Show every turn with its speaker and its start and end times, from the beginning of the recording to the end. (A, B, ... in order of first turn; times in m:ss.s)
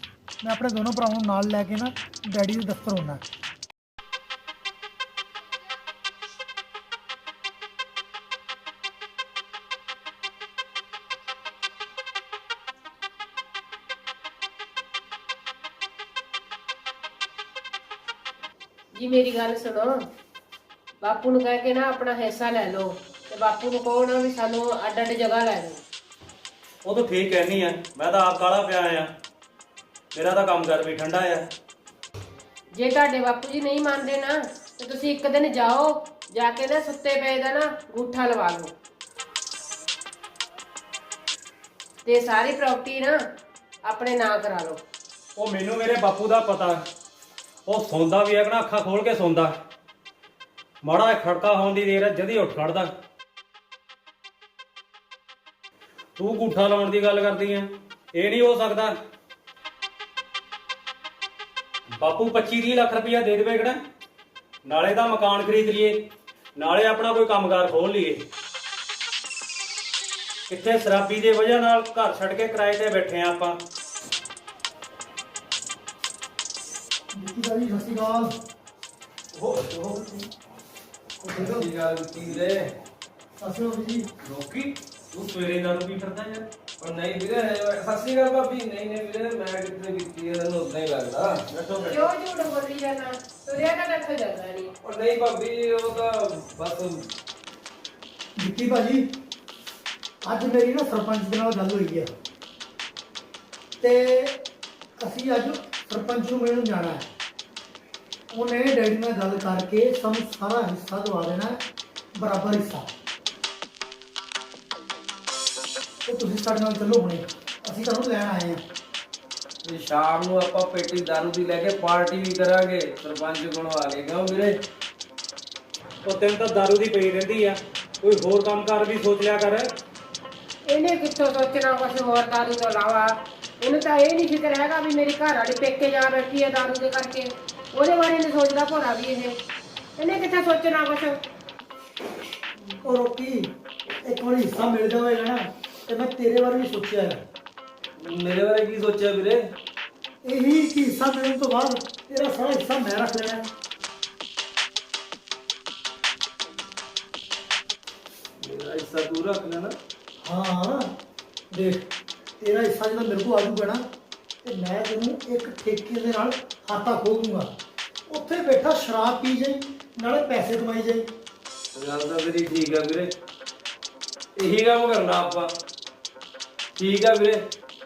0:00.4-0:03.2 A
0:19.0-0:20.0 B
0:21.0-0:25.8 B
0:26.8-0:29.1 C
0:30.1-0:31.5 C
0:32.7-0:38.7 B
0:42.0-0:43.2 B
0:43.8-0:44.8 B
0:45.4-0:46.8 C
0:47.7-0:49.5 C
0:50.8-0:52.9 C
0:56.2-0:59.0 C
1:02.0-1:03.8 C
1:04.6-1:06.0 C
1:06.6-1:08.2 C
1:10.5-1:13.6 C
1:17.2-1:18.3 A
1:19.7-1:20.2 A
1:21.2-1:21.7 A
1:21.3-1:22.7 D
1:23.4-1:24.1 A
1:24.2-1:26.5 C
1:26.8-1:32.1 D
1:31.9-1:34.7 B
1:34.8-1:37.0 D
1:38.4-1:39.0 A
1:40.2-1:42.1 A
1:43.8-1:44.4 A
1:45.0-1:47.0 A
1:48.3-1:51.6 A
1:52.2-1:52.9 A
1:56.1-1:58.6 A
1:59.6-2:04.6 D
2:06.0-2:09.7 C
2:10.7-2:19.4 B
2:20.0-2:21.2 B
2:22.8-2:23.5 A
2:24.0-2:27.2 A
2:28.0-2:29.5 D
2:30.2-2:33.5 A
2:38.4-2:39.8 D
2:40.2-2:40.9 A
2:41.5-2:41.9 A
2:42.4-2:43.8 A
2:44.4-2:47.5 A
2:48.1-2:51.1 A
2:51.8-2:53.1 D
2:54.4-2:55.5 D
2:56.8-2:57.4 D